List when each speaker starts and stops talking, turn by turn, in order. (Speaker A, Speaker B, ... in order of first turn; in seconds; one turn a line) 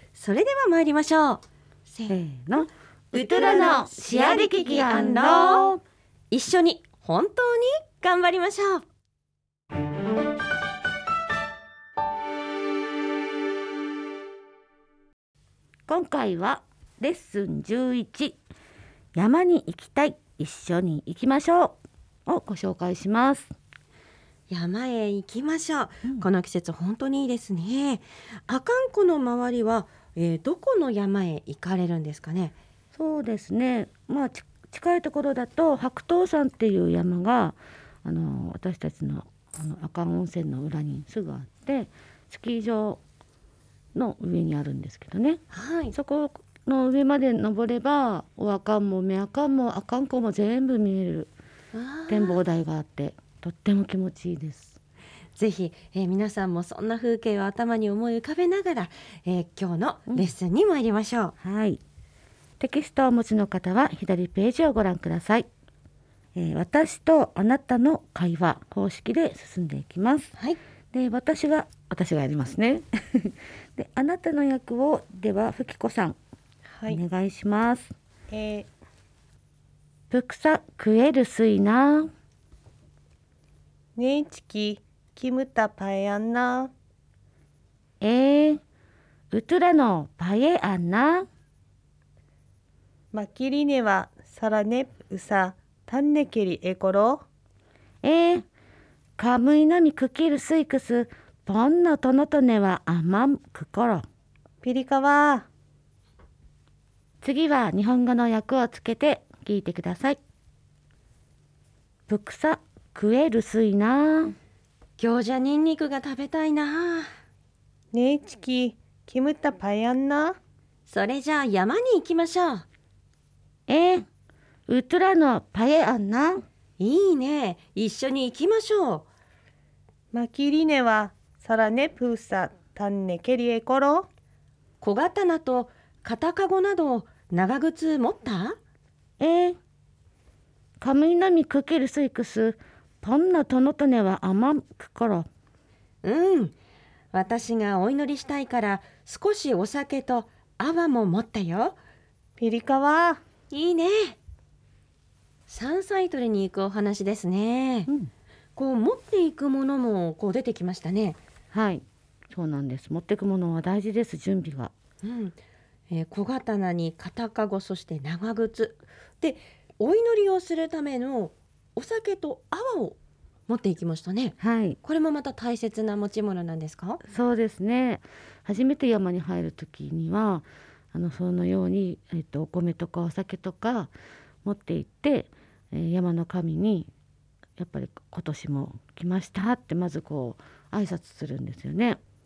Speaker A: 0.1-2.2
Speaker B: 2.1-5.8
Speaker A: 3.1-5.7
Speaker A: 6.3-8.8
Speaker B: 15.9-18.4
Speaker B: 19.1-23.5
Speaker A: 24.5-32.5
Speaker B: 32.9-43.0
Speaker B: 43.9-45.4
Speaker A: 45.5-45.9
Speaker B: 45.9-51.3
Speaker A: 51.7-52.4
Speaker B: 52.1-54.8
Speaker A: 55.4-61.3
Speaker B: 61.4-61.8
Speaker B: 62.6-65.5
Speaker B: 66.3-70.3
Speaker B: 70.9-76.2
Speaker C: 76.7-77.0
Speaker B: 76.9-77.9
Speaker C: 78.3-78.7
Speaker B: 80.1-82.1
Speaker C: 84.0-86.7
Speaker B: 88.0-88.6
Speaker B: 89.3-91.3
Speaker C: 93.1-97.2
Speaker B: 98.0-98.5
Speaker B: 99.2-104.0
Speaker C: 104.6-105.5
Speaker B: 107.2-110.2
Speaker B: 112.1-114.3
Speaker A: 115.0-117.1
Speaker C: 117.9-120.4
Speaker A: 120.8-122.7
Speaker B: 123.7-124.1
Speaker B: 124.7-126.4
Speaker A: 126.8-129.1
Speaker C: 130.1-134.1
Speaker A: 134.8-138.6
Speaker B: 139.2-139.6
Speaker B: 140.8-145.3
Speaker A: 146.0-146.5
Speaker A: 147.1-151.8
Speaker C: 152.4-153.2
Speaker A: 153.5-154.2
Speaker A: 155.5-157.9
Speaker A: 158.6-161.2
Speaker B: 161.5-164.7
Speaker A: 165.0-165.4
Speaker A: 165.9-173.0
Speaker A: 173.5-177.0
Speaker B: 174.4-174.8
Speaker B: 177.1-183.9
Speaker B: 184.4-186.9
Speaker B: 187.6-192.0